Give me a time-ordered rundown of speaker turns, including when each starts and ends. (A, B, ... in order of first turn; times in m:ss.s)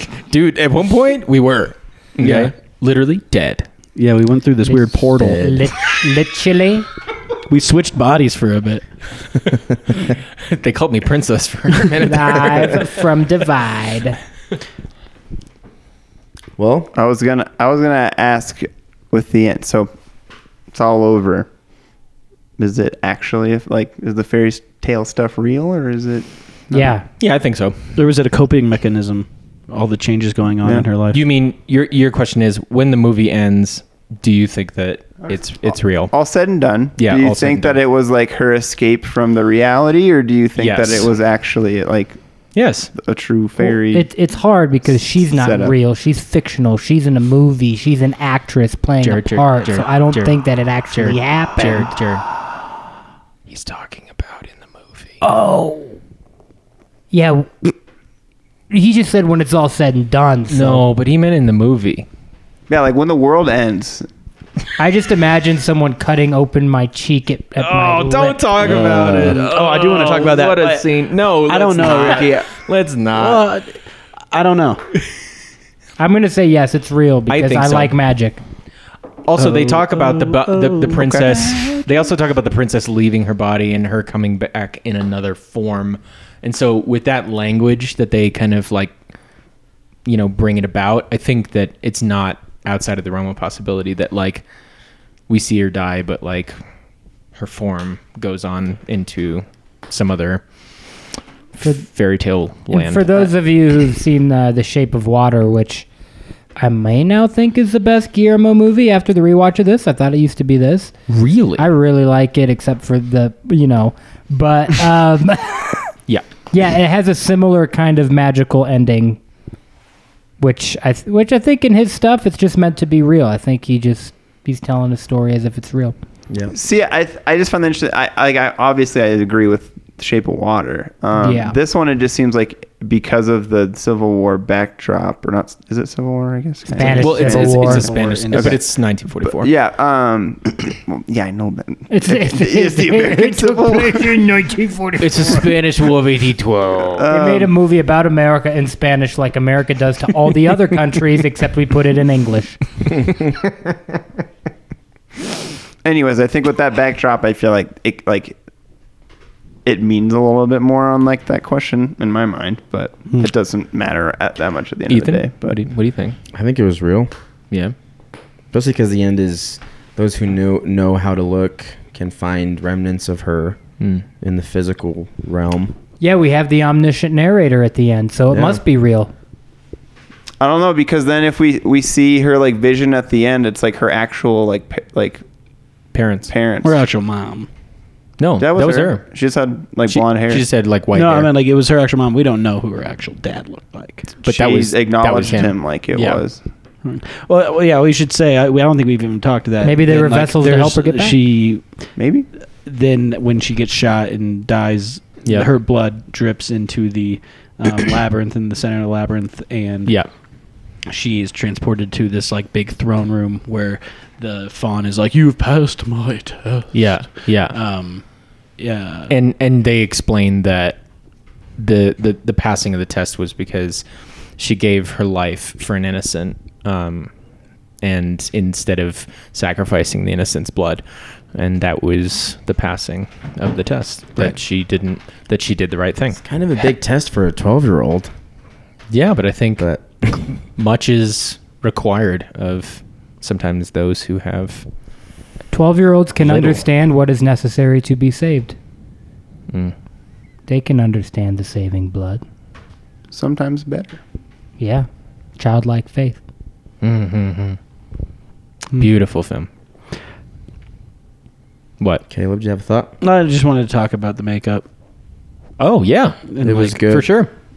0:00.3-0:03.7 A
0:02.2-0:02.5 B
0:03.9-0:05.6 B
0:04.6-0:06.9 C
0:07.5-0:08.8 B
0:10.4-0:12.9 A
0:12.0-0:14.2 C
0:16.6-0:16.9 D
0:16.9-0:19.9 E
0:20.7-0:21.5 E
0:22.6-0:26.9 E
0:26.7-0:27.0 C
0:27.2-0:27.9 A
0:28.0-0:31.2 B
0:31.1-0:36.1 A
0:36.1-0:42.2 E
0:37.0-0:37.8 A
0:40.6-0:41.1 A
0:42.5-0:42.9 A
0:43.0-0:44.1 E
0:43.9-0:51.9 C
0:45.2-0:45.7 E
0:49.0-0:50.4 A
0:50.9-0:52.2 A
0:53.5-0:55.2 A
0:55.2-0:56.0 C
0:57.1-0:57.7 C
0:58.7-1:00.8 C
1:00.5-1:02.1 A
1:02.7-1:04.1 E
1:04.8-1:08.4 C
1:07.6-1:13.5 A
1:08.6-1:10.9 B
1:11.4-1:12.5 B
1:13.1-1:13.8 B
1:14.3-1:14.8 B
1:16.0-1:18.4 C
1:17.3-1:17.9 A
1:19.3-1:28.9 A
1:19.3-1:21.9 B
1:30.0-1:34.4 A
1:35.3-1:36.5 A
1:37.4-1:40.4 A
1:41.6-1:43.3 A
1:42.7-1:45.9 C
1:46.6-1:50.9 C
1:51.1-1:51.6 A
1:51.6-1:55.9 C
1:56.5-1:59.2 C
2:00.4-2:05.9 C
2:06.5-2:18.6 E
2:11.2-2:11.6 C
2:16.7-2:17.9 C
2:16.8-2:19.5 A
2:17.0-2:18.6 B
2:19.2-2:24.2 E
2:21.9-2:25.5 C
2:25.0-2:27.0 A
2:27.0-2:27.5 E
2:27.1-2:32.6 C
2:35.8-2:38.4 E
2:39.6-2:45.6 E
2:44.9-2:46.2 A
2:46.3-2:47.1 D
2:48.5-2:53.6 D
2:53.8-2:54.1 A
2:54.2-2:55.7 D
2:56.0-2:59.1 C
2:58.3-2:58.6 D
3:00.4-3:05.2 E
3:05.9-3:06.3 A
3:06.3-3:06.8 E
3:06.6-3:07.5 B
3:08.2-3:09.0 A
3:08.4-3:10.4 E
3:09.9-3:11.3 A
3:10.9-3:14.2 B
3:14.2-3:16.2 A
3:14.2-3:16.4 E
3:16.8-3:21.6 B
3:19.6-3:21.2 C
3:22.0-3:22.3 E
3:22.6-3:30.0 B
3:30.8-3:38.0 B
3:36.7-3:37.6 A
3:38.6-3:39.2 B
3:39.1-3:40.8 A
3:41.6-3:43.8 A
3:44.4-3:47.1 A
3:47.8-3:50.8 A
3:51.3-3:56.2 A
3:56.2-3:58.1 D
3:58.9-3:59.7 A
3:59.6-4:00.2 D
4:00.5-4:04.6 A
4:05.5-4:08.6 C
4:06.2-4:06.6 A
4:10.5-4:12.2 C
4:13.1-4:14.0 E
4:14.6-4:16.2 C
4:16.8-4:17.6 A
4:18.7-4:19.5 A
4:22.1-4:22.9 D
4:23.0-4:24.6 B
4:25.6-4:27.3 A
4:26.3-4:26.7 B
4:26.4-4:27.1 D